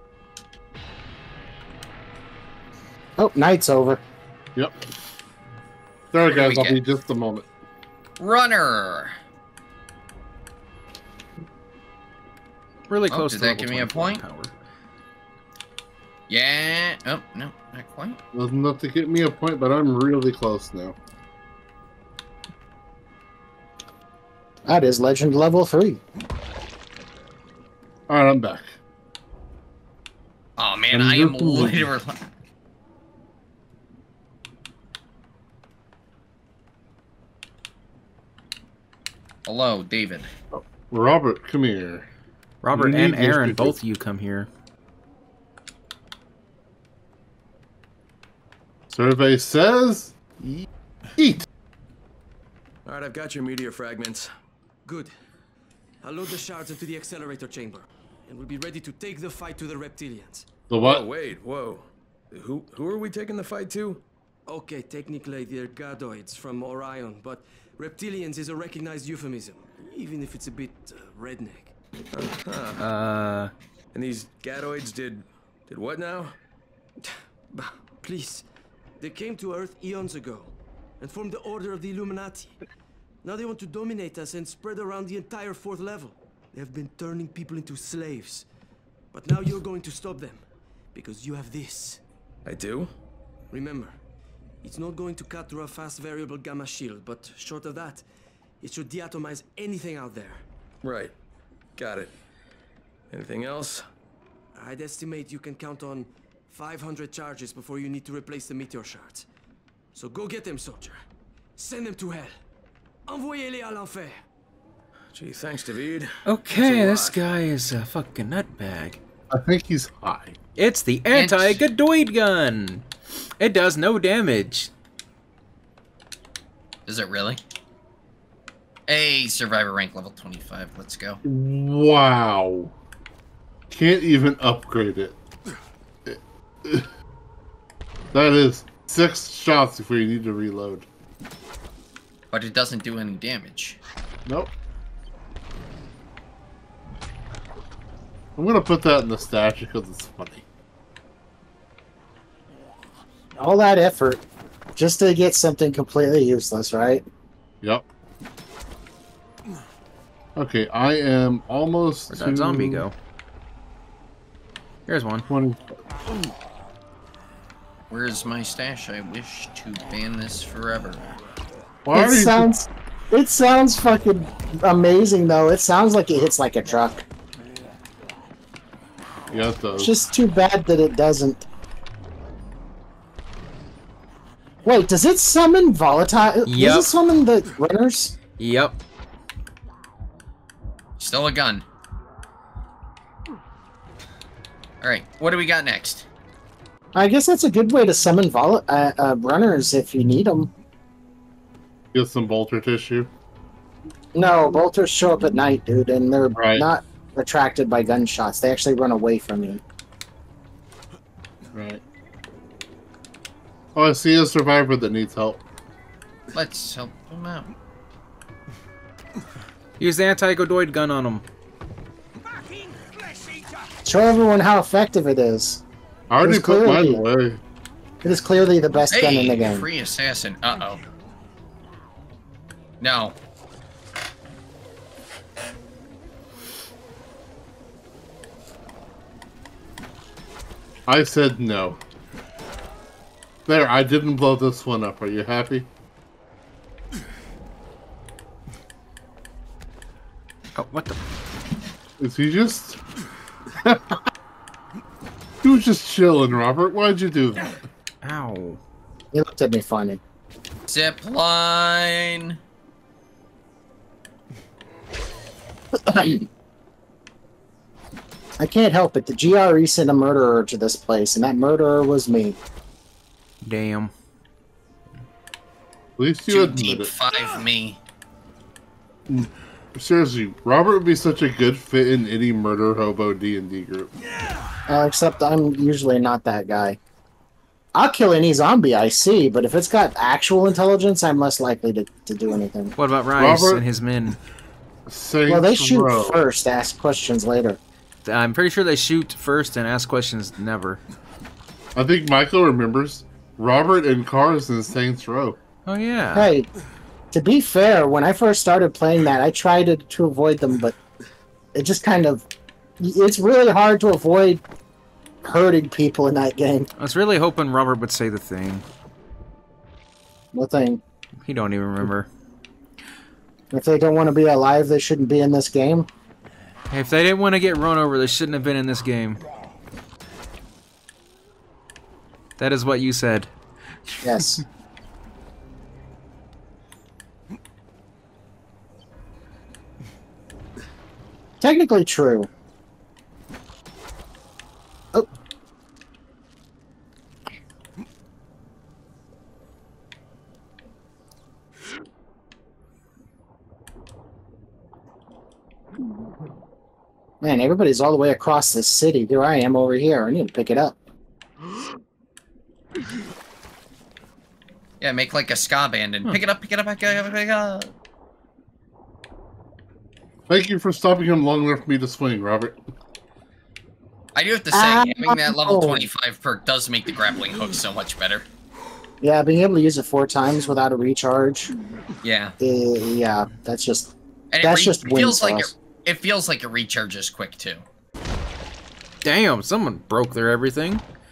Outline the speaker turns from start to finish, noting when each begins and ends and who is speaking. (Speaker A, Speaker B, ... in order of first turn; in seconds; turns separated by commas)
Speaker A: 3.2-4.0, Speaker B: 6.1-7.5, Speaker C: 6.3-6.8, Speaker C: 8.2-9.2, Speaker D: 12.9-14.5, Speaker C: 13.1-14.2, Speaker C: 16.3-18.2, Speaker B: 18.3-21.0, Speaker A: 24.6-26.0, Speaker B: 28.1-28.8, Speaker C: 30.6-32.2, Speaker B: 30.9-31.9, Speaker C: 39.5-40.3, Speaker B: 40.5-42.1, Speaker D: 42.6-44.5, Speaker B: 42.7-43.8, Speaker B: 48.9-50.3, Speaker B: 51.2-51.5, Speaker E: 52.8-54.3, Speaker F: 54.8-55.1, Speaker F: 56.0-60.5, Speaker B: 60.7-61.0, Speaker E: 60.7-64.0, Speaker F: 64.5-71.7, Speaker E: 72.1-72.8, Speaker D: 72.8-73.5, Speaker E: 73.9-76.4, Speaker F: 77.5-78.4, Speaker F: 79.0-82.6, Speaker F: 83.2-88.5, Speaker F: 89.1-92.0, Speaker E: 92.4-92.9, Speaker F: 93.5-94.0, Speaker F: 94.6-98.0, Speaker F: 98.6-100.4, Speaker E: 100.8-101.1, Speaker E: 101.8-102.1, Speaker E: 103.1-103.8, Speaker F: 104.5-109.2, Speaker F: 109.9-111.0, Speaker F: 111.5-112.4, Speaker F: 113.1-114.2, Speaker E: 115.1-117.2, Speaker D: 116.2-119.0, Speaker B: 119.3-120.4, Speaker D: 120.5-122.8, Speaker C: 121.1-121.6, Speaker D: 123.4-124.7, Speaker C: 126.8-127.4, Speaker C: 128.9-131.2, Speaker B: 131.2-132.7, Speaker B: 133.7-135.2, Speaker B: 136.0-136.9, Speaker B: 138.1-140.9, Speaker C: 142.3-143.8, Speaker B: 144.2-144.5, Speaker B: 148.3-150.4, Speaker A: 153.4-154.2, Speaker A: 154.8-157.0, Speaker B: 157.6-157.9, Speaker B: 160.3-162.8, Speaker D: 162.1-162.9, Speaker D: 164.9-165.3, Speaker B: 165.3-165.7, Speaker C: 167.9-171.1, Speaker B: 171.8-172.6, Speaker A: 171.9-177.0, Speaker B: 179.3-179.9, Speaker A: 179.8-181.4, Speaker A: 184.6-188.2, Speaker D: 186.4-186.9, Speaker D: 188.4-188.8, Speaker C: 191.0-191.6, Speaker C: 194.8-196.1, Speaker A: 196.9-200.5, Speaker B: 201.9-203.1, Speaker A: 204.1-209.6, Speaker B: 206.3-206.7, Speaker B: 211.5-211.8, Speaker B: 213.7-215.4, Speaker C: 216.3-217.5, Speaker D: 219.8-221.2, Speaker A: 223.8-225.6, Speaker B: 226.1-227.4, Speaker A: 226.2-227.0, Speaker A: 228.0-229.7, Speaker C: 228.9-230.8, Speaker C: 232.8-233.2, Speaker B: 240.9-241.8, Speaker B: 243.4-245.7, Speaker D: 250.5-251.0, Speaker B: 252.0-252.8, Speaker B: 253.5-254.0, Speaker B: 255.4-257.6, Speaker D: 258.0-258.6, Speaker A: 259.1-260.0, Speaker C: 260.7-262.4, Speaker A: 265.7-266.2, Speaker A: 268.4-272.4, Speaker D: 273.4-273.9, Speaker B: 276.0-276.9, Speaker C: 276.3-277.8, Speaker B: 279.1-283.9, Speaker A: 284.7-286.8, Speaker A: 287.7-292.7, Speaker D: 292.8-294.2, Speaker B: 293.2-293.6, Speaker B: 294.9-296.2, Speaker A: 295.3-297.6, Speaker D: 298.0-300.8, Speaker B: 301.7-305.4, Speaker D: 305.6-306.3, Speaker A: 306.1-306.5, Speaker A: 307.1-310.8, Speaker A: 311.5-312.2, Speaker A: 312.8-314.4, Speaker A: 315.2-316.7, Speaker D: 316.8-318.6, Speaker A: 320.3-320.8, Speaker D: 321.2-322.1, Speaker A: 323.5-325.9, Speaker D: 326.7-329.2, Speaker D: 332.4-333.3, Speaker A: 334.0-334.4, Speaker A: 341.4-342.3, Speaker A: 357.2-360.8, Speaker C: 364.8-367.7, Speaker B: 370.3-372.6, Speaker C: 374.1-378.2, Speaker A: 374.5-375.9, Speaker A: 379.0-381.5, Speaker C: 382.0-382.4, Speaker A: 382.4-385.5, Speaker C: 384.3-387.6, Speaker D: 389.0-390.8